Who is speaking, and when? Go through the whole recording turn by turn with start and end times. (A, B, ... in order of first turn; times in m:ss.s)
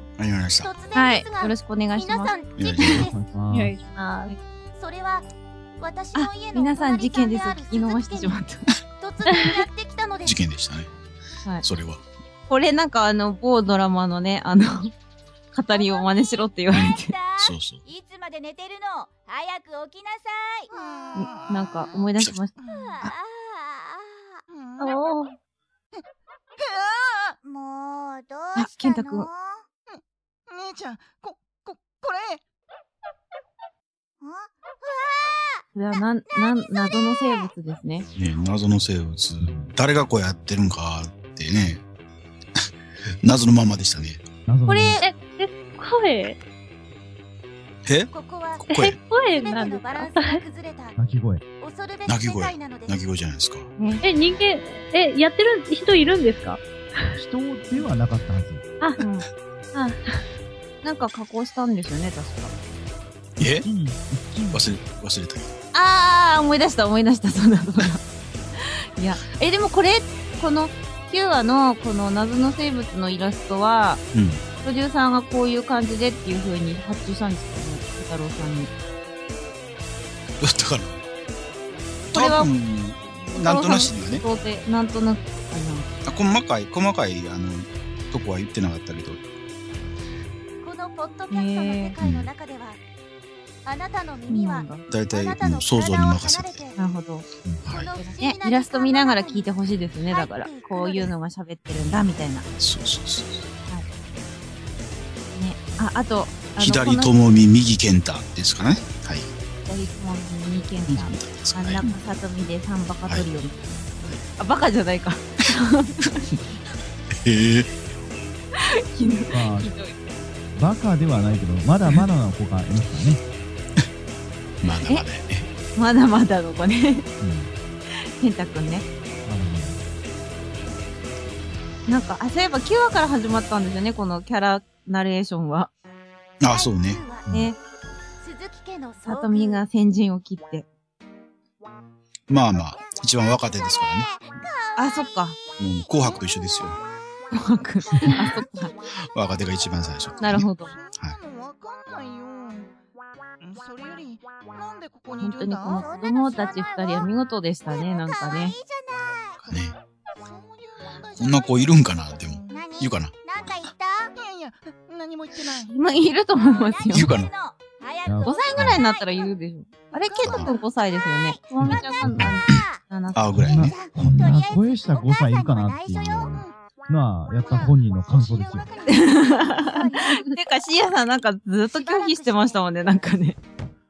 0:00.2-0:00.7 A
0:00.6-0:03.2 B
0:01.0-0:02.4 C
0:02.6-0:03.1 A
0:02.9-0:03.8 D
0:03.5-0:04.3 E
0:04.8-0:05.3 B
0:05.8-0:08.4 B
0:06.2-0:08.7 C
0:09.0-0:10.4 B
0:09.2-0:09.6 E
0:10.2-0:10.9 A
0:11.6-0:12.0 A
0:12.5-0:14.9 C
0:15.5-0:17.2 C
0:15.7-0:20.7 B
0:16.7-0:17.8 A
0:20.8-0:21.5 F
0:21.2-0:23.1 C
0:22.6-0:24.4 B
0:24.5-0:24.9 F
0:24.8-0:25.3 E
0:27.4-0:29.6 B
0:28.6-0:29.3 C
0:30.5-0:32.4 F
0:34.2-0:35.6 B
0:35.7-0:38.1 C
0:36.7-0:37.4 B
0:38.2-0:41.8 A
0:39.4-0:39.8 D
0:43.2-0:44.2 A
0:44.5-0:45.0 D
0:44.7-0:45.1 C
0:45.0-0:46.4 E
0:47.8-0:48.1 A
0:48.1-0:51.0 B
0:48.6-0:50.4 E
0:48.7-0:49.0 A
0:51.0-0:51.4 D
0:51.6-0:53.0 B
0:52.1-0:53.7 A
0:53.8-0:54.0 C
0:54.0-0:57.2 E
0:57.2-0:58.6 D
0:59.0-0:59.3 C
0:59.7-1:00.2 E
1:00.8-1:02.5 C
1:03.4-1:04.6 D
1:03.4-1:03.6 A
1:04.5-1:05.5 A
1:05.7-1:08.0 C
1:09.0-1:14.0 C
1:14.1-1:14.4 A
1:14.6-1:18.7 C
1:20.4-1:21.0 A
1:22.1-1:22.5 C
1:22.1-1:24.3 A
1:23.3-1:25.9 C
1:26.0-1:29.2 A
1:30.6-1:32.8 B
1:31.3-1:31.9 C
1:32.0-1:32.3 A
1:33.6-1:36.8 B
1:34.3-1:34.8 C
1:34.9-1:36.7 A
1:36.8-1:37.3 C
1:37.5-1:37.9 A
1:37.7-1:41.1 B
1:37.9-1:42.4 C
1:42.6-1:43.5 A
1:45.4-1:47.4 C
1:46.6-1:49.3 A
1:49.7-1:53.8 C
1:50.9-1:51.9 A
1:54.4-1:56.2 C
1:57.1-1:57.7 A
1:58.6-2:00.0 C
1:59.3-1:59.7 D
2:00.6-2:03.2 D
2:04.6-2:05.5 A
2:05.8-2:07.1 C
2:07.2-2:07.5 D
2:08.2-2:08.9 C
2:09.3-2:09.8 D
2:11.9-2:15.7 C
2:16.4-2:17.0 A
2:16.5-2:17.3 B
2:17.3-2:17.6 C
2:18.2-2:19.6 B
2:19.1-2:20.7 C
2:22.3-2:24.1 A
2:23.5-2:27.3 B
2:24.8-2:25.4 C
2:25.6-2:26.8 A
2:27.3-2:28.7 C
2:28.4-2:29.0 B
2:29.0-2:31.2 A
2:30.2-2:30.7 C
2:30.6-2:32.7 F
2:33.4-2:35.8 F
2:35.2-2:38.6 C
2:35.7-2:39.4 B
2:39.5-2:39.8 A
2:40.2-2:42.7 F
2:41.2-2:43.1 A
2:42.5-2:44.1 B
2:44.2-2:45.7 F
2:45.7-2:47.1 C
2:46.4-2:49.4 B
2:46.9-2:47.3 A
2:47.0-2:47.2 D
2:48.0-2:48.8 D
2:48.2-2:53.2 C
2:49.9-2:52.9 B
2:50.2-2:50.5 A
2:51.6-2:52.4 D
2:53.2-2:53.7 A
2:53.3-2:58.7 D
2:53.5-2:56.4 B
2:57.5-3:00.2 B
2:58.9-3:03.4 C
3:00.0-3:00.3 E
3:01.6-3:02.8 B